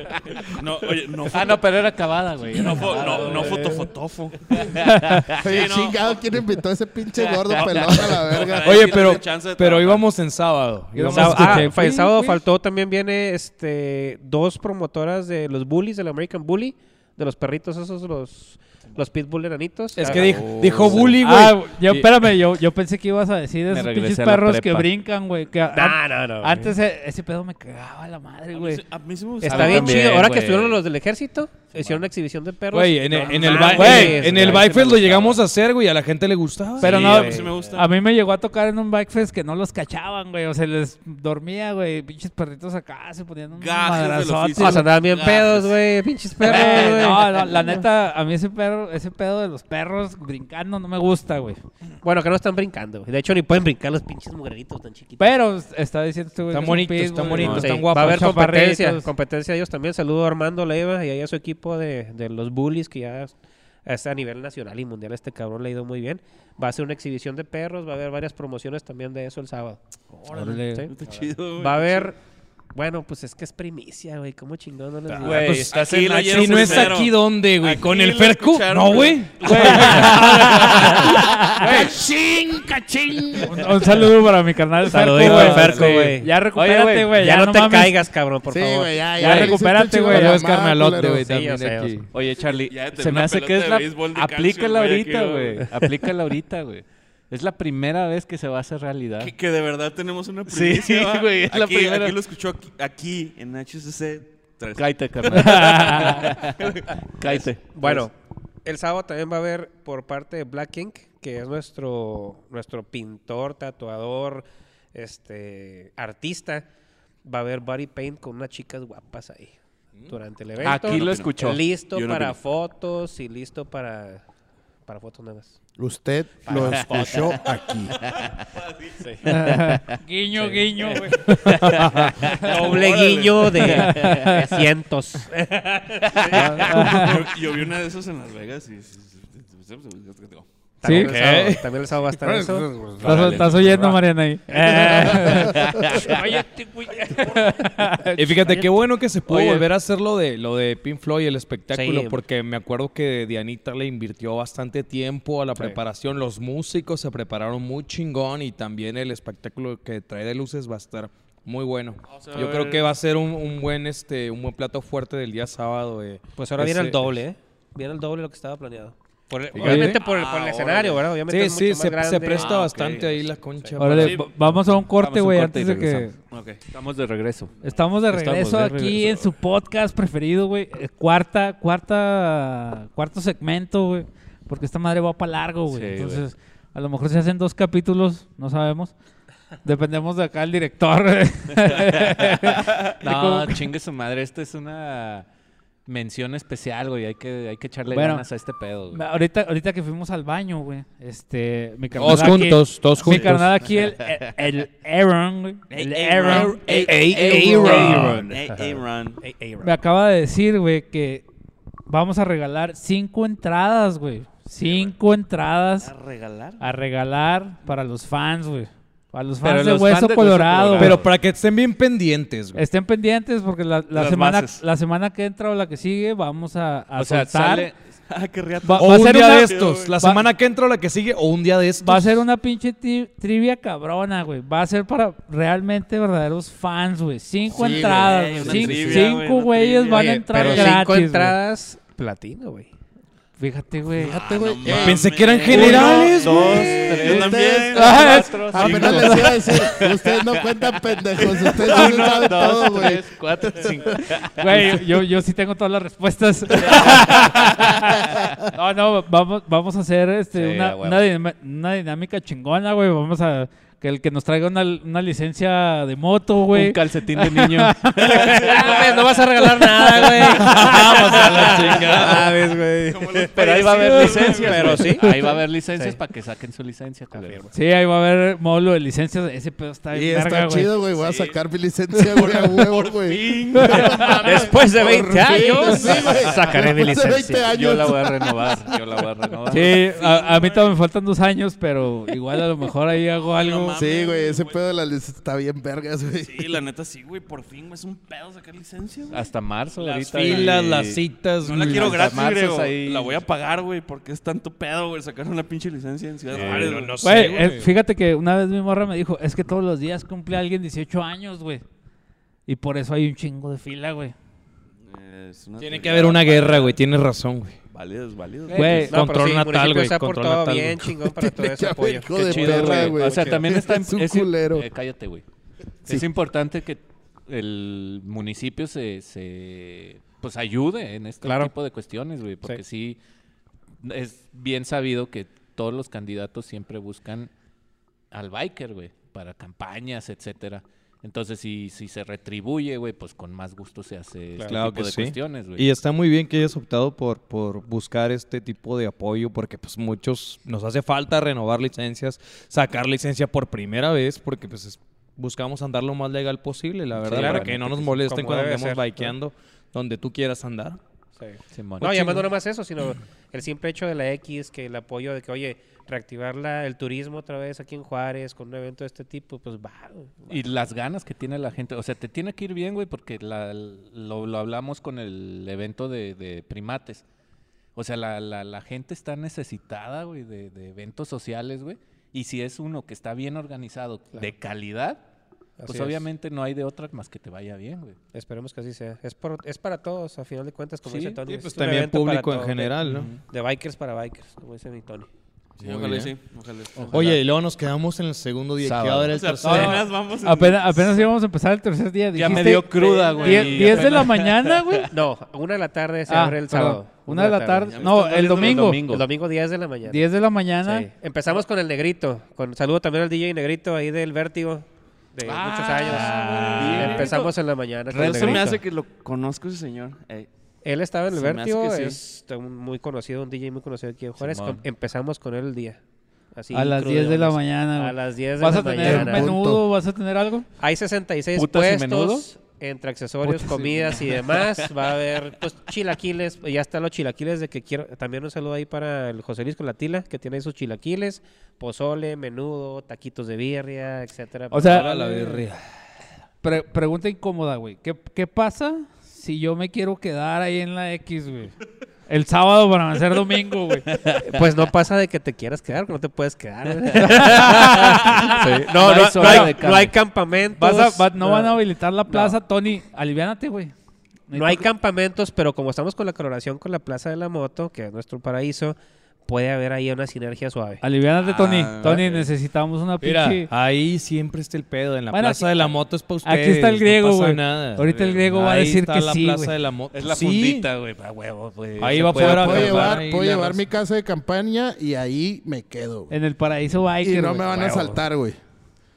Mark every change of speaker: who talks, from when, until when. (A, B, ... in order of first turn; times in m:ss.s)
0:00.4-0:01.9 A
0:01.3-0:03.9 B
0:02.5-0:04.8 A
0:04.5-0:05.4 B
0:04.8-0:05.2 C
0:05.3-0:08.9 D
0:05.4-0:06.2 A
0:07.3-0:08.3 B
0:07.5-0:10.1 A
0:08.6-0:12.2 E
0:10.9-0:12.4 C
0:11.1-0:21.1 F
0:20.0-0:22.1 E
0:20.1-0:21.2 B
0:21.2-0:28.8 C
0:23.7-0:24.9 B
0:25.7-0:26.7 F
0:28.5-0:30.1 A
0:29.4-0:34.9 F
0:29.4-0:30.8 B
0:31.8-0:32.0 B
0:32.7-0:37.4 E
0:33.2-0:34.5 A
0:33.5-0:35.4 B
0:33.7-0:34.2 C
0:36.8-0:37.9 A
0:36.8-0:44.9 C
0:36.9-0:37.5 F
0:43.6-0:45.8 A
0:44.6-0:47.8 F
0:46.4-0:51.6 C
0:46.5-0:47.0 A
0:52.0-0:55.3 F
0:55.2-0:59.1 C
0:56.5-0:58.5 E
0:57.4-0:57.7 A
0:57.5-1:03.3 F
1:03.9-1:09.8 F
1:10.2-1:12.1 A
1:10.3-1:10.9 C
1:10.7-1:10.9 F
1:11.6-1:12.2 F
1:12.7-1:15.5 F
1:15.1-1:20.8 A
1:15.2-1:17.1 B
1:15.2-1:21.9 E
1:19.4-1:21.7 C
1:19.5-1:20.7 B
1:21.6-1:23.5 D
1:23.1-1:23.5 E
1:23.4-1:28.0 C
1:24.8-1:26.3 F
1:25.2-1:27.2 B
1:27.2-1:29.2 F
1:28.5-1:31.3 D
1:29.2-1:30.4 C
1:29.2-1:29.5 E
1:30.1-1:32.1 E
1:31.2-1:32.0 F
1:32.1-1:39.3 B
1:32.7-1:35.8 A
1:39.2-1:47.5 A
1:40.5-1:42.2 B
1:44.8-1:48.1 B
1:45.3-1:46.2 C
1:47.7-1:48.1 F
1:48.6-1:56.7 F
1:57.2-1:59.6 F
2:00.1-2:04.2 F
2:00.6-2:02.4 A
2:00.6-2:01.6 B
2:04.9-2:05.6 F
2:05.8-2:08.0 D
2:06.5-2:07.2 F
2:06.5-2:07.4 B
2:08.0-2:08.4 B
2:08.2-2:09.0 A
2:09.2-2:11.0 B
2:09.3-2:11.7 C
2:11.4-2:12.2 E
2:12.0-2:12.4 B
2:12.3-2:14.0 A
2:12.4-2:17.1 F
2:13.6-2:14.7 B
2:13.7-2:14.4 C
2:16.2-2:20.5 A
2:16.3-2:16.8 B
2:16.3-2:17.3 C
2:20.8-2:22.7 F
2:20.8-2:21.1 C
2:20.9-2:21.7 E
2:22.2-2:23.7 D
2:23.0-2:28.7 C
2:23.0-2:24.0 B
2:24.9-2:26.2 B
2:24.9-2:25.8 D
2:28.2-2:47.1 E
2:29.3-2:29.6 B
2:31.7-2:32.2 F
2:42.1-2:43.0 A
2:46.4-2:52.6 F
2:49.5-2:50.0 E
2:49.6-2:49.9 C
2:49.6-2:51.1 A
2:51.3-2:54.3 E
2:52.3-2:53.3 A
2:53.8-2:56.1 C
2:54.0-2:54.3 A
2:54.6-2:57.6 B
2:56.3-2:56.6 A
2:57.6-3:08.9 C
2:58.1-2:59.3 B
3:05.7-3:06.2 B
3:09.6-3:13.7 C
3:13.0-3:15.3 B
3:15.9-3:19.0 B
3:17.9-3:18.2 C
3:18.9-3:28.2 C
3:22.0-3:23.6 E
3:25.7-3:29.2 A
3:26.2-3:29.7 F
3:26.7-3:28.3 B
3:29.6-3:31.2 C
3:31.9-3:35.9 C
3:34.6-3:34.9 A
3:35.8-3:36.6 A
3:36.6-3:41.0 C
3:39.4-3:41.1 B
3:40.8-3:42.6 E
3:42.6-3:47.7 C
3:43.9-3:44.6 A
3:47.0-3:47.8 B
3:48.1-3:50.0 A
3:48.6-3:50.2 C
3:48.8-3:52.2 E
3:51.8-4:01.4 C
3:57.5-3:59.0 D
3:57.8-4:00.7 A
3:59.9-4:02.7 F
4:03.4-4:04.2 C
4:04.0-4:05.8 D
4:04.0-4:09.4 A
4:04.6-4:06.5 E
4:05.4-4:10.2 B
4:06.5-4:14.1 D
4:07.8-4:09.7 C
4:11.2-4:12.2 A
4:11.4-4:14.8 B
4:14.3-4:28.4 C
4:16.6-4:17.5 B
4:20.4-4:21.1 B
4:26.5-4:27.9 B
4:28.0-4:29.2 A
4:28.1-4:33.3 F
4:29.9-4:30.8 C
4:30.0-4:35.0 A
4:30.2-4:32.5 B
4:30.6-4:32.0 E
4:33.3-4:37.5 B
4:34.0-4:36.0 F
4:37.1-4:37.5 F
4:37.5-4:40.7 C
4:39.9-4:48.5 D
4:40.9-4:41.4 A
4:42.1-4:44.8 A
4:43.5-4:44.2 C
4:44.2-4:47.5 F
4:45.6-4:46.3 A
4:47.5-4:49.8 B
4:49.5-4:53.8 C
4:49.6-4:50.8 A
4:53.3-4:54.6 A
4:53.8-4:56.6 D
4:56.2-5:00.6 A
4:59.1-5:03.2 B
5:00.1-5:02.1 E
5:01.4-5:06.9 A
5:06.3-5:06.9 B
5:06.4-5:07.7 E
5:07.0-5:11.6 C
5:12.5-5:14.1 C
5:14.8-5:16.8 A
5:15.6-5:17.6 E
5:17.7-5:18.9 A
5:18.5-5:18.9 B
5:18.5-5:19.0 C
5:18.9-5:21.0 E
5:18.9-5:23.4 F
5:21.2-5:24.7 D
5:22.2-5:25.2 B
5:25.9-5:33.0 B
5:31.2-5:31.5 F
5:33.8-5:37.3 B
5:38.1-5:45.7 B
5:44.5-6:00.8 E
5:57.0-5:57.9 B
5:57.1-5:59.1 F
6:01.2-6:10.5 F
6:01.5-6:02.3 B
6:10.3-6:17.0 B
6:17.8-6:25.0 B
6:25.6-6:26.0 F
6:25.6-6:28.0 B
6:28.1-6:35.1 F
6:30.9-6:31.2 B
6:31.3-6:33.2 E
6:32.9-6:33.2 B
6:35.6-6:37.2 A
6:35.6-6:36.1 E
6:36.8-6:37.2 B
6:36.9-6:39.8 E
6:38.6-6:39.2 B
6:39.1-6:41.1 A
6:39.4-6:44.9 C
6:42.1-6:44.9 B
6:42.8-6:43.5 F
6:42.8-6:43.9 A
6:44.9-6:47.9 F
6:46.1-6:48.8 C
6:47.7-6:48.8 A
6:48.0-6:49.1 B
6:48.4-6:50.1 F
6:49.9-6:50.9 C
6:50.6-6:58.6 F
6:55.2-6:57.3 B
6:55.9-6:56.8 C
6:56.0-6:57.3 A
6:57.9-6:58.6 B
6:57.9-7:00.3 A
7:00.6-7:05.8 F
7:01.1-7:02.0 A
7:04.2-7:04.6 B
7:06.3-7:09.3 F
7:06.5-7:10.5 C
7:08.8-7:09.6 D
7:10.6-7:25.3 F
7:11.4-7:12.3 B
7:13.5-7:14.6 B
7:24.5-7:25.4 C
7:24.6-7:25.6 E
7:26.4-7:31.6 C
7:32.1-7:33.9 C
7:34.2-7:42.4 F
7:37.0-7:38.5 C
7:37.1-7:40.0 B
7:39.2-7:39.6 C
7:40.6-7:43.7 C
7:44.3-7:44.6 C
7:44.3-7:50.8 F
7:50.8-7:53.5 C
7:51.2-7:52.3 A
7:53.0-8:00.7 E
7:55.1-7:55.6 C
7:56.2-7:59.5 C
7:57.8-7:58.3 B
7:59.9-8:03.0 B
8:01.8-8:03.6 E
8:01.8-8:02.9 C
8:02.2-8:06.1 D
8:06.1-8:08.0 C
8:07.0-8:08.4 D